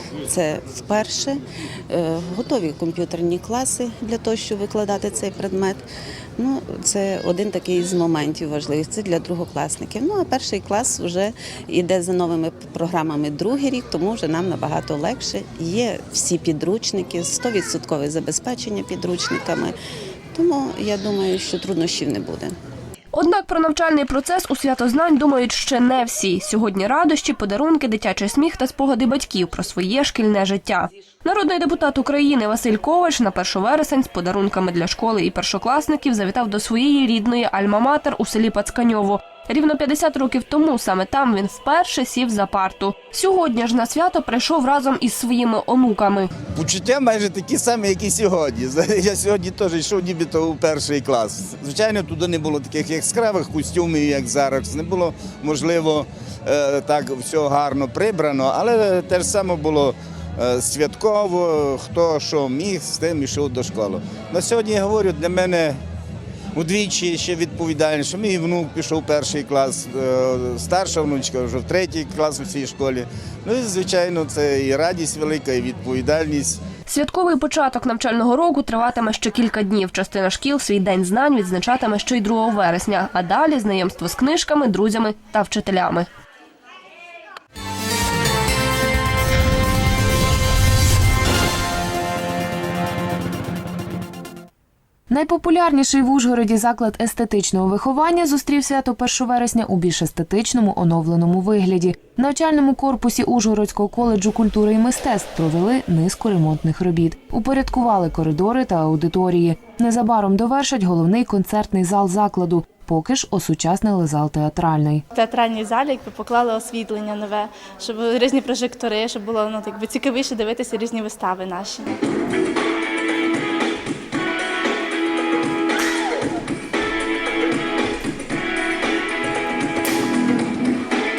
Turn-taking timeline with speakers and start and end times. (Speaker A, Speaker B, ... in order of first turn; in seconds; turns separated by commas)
Speaker A: 0.3-19.8, Speaker A: 20.4-22.6, Speaker B: 23.1-46.3, Speaker C: 46.6-65.8, Speaker C: 66.6-76.6, Speaker B: 76.9-86.1, Speaker D: 95.1-115.0, Speaker E: 115.1-122.0